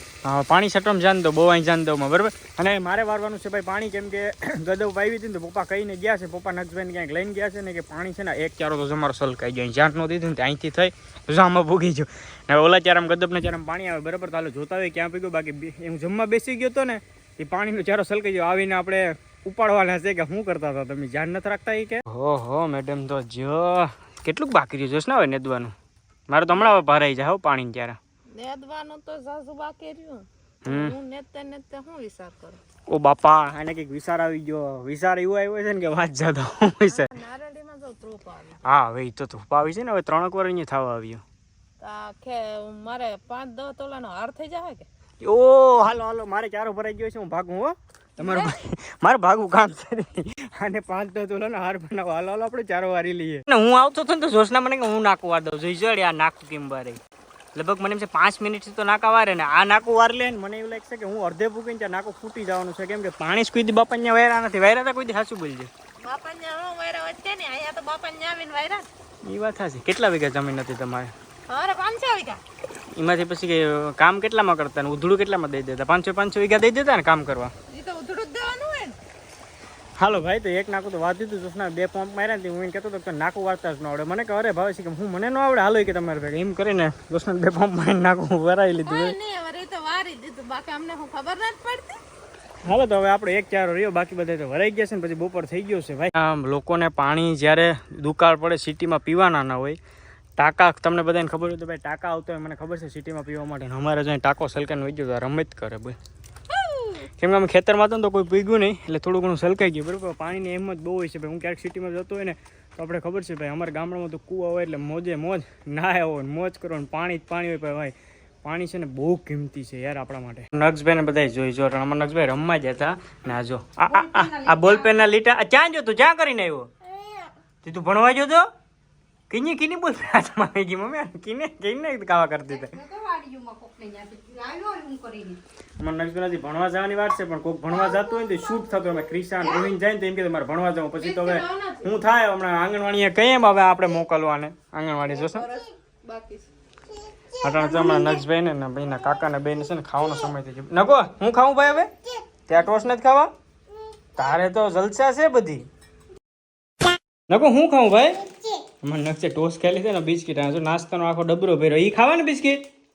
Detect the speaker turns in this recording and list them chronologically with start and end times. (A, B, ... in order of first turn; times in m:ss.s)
0:00.2-0:25.7 A
0:26.3-0:28.0 A
0:26.5-0:26.9 B
0:28.3-0:32.6 B
0:30.6-0:31.0 A
0:32.9-0:37.1 A
0:36.9-0:38.6 B
0:38.6-0:41.2 A
0:41.8-0:44.9 B
0:45.2-0:57.0 A
0:48.2-0:48.6 B
0:57.6-1:05.7 A
1:06.0-1:08.9 B
1:09.2-1:11.1 A
1:11.5-1:12.4 B
1:13.0-1:17.5 A
1:17.7-1:19.0 B
1:20.0-1:29.2 A
1:28.8-1:32.0 B
1:32.6-1:39.8 A
1:40.4-1:46.0 A
1:46.5-1:47.0 B
1:47.2-2:06.7 A
2:03.9-2:05.1 B
2:06.9-2:07.3 B
2:07.6-2:08.5 A
2:09.3-2:12.8 A
2:12.5-2:15.4 B
2:15.8-2:25.5 A
2:21.0-2:22.0 B
2:25.1-2:26.5 B
2:27.4-2:31.9 A
2:27.5-2:28.2 B
2:32.5-2:33.3 A
2:34.2-2:35.7 A
2:37.3-2:38.2 A
2:38.8-2:42.7 A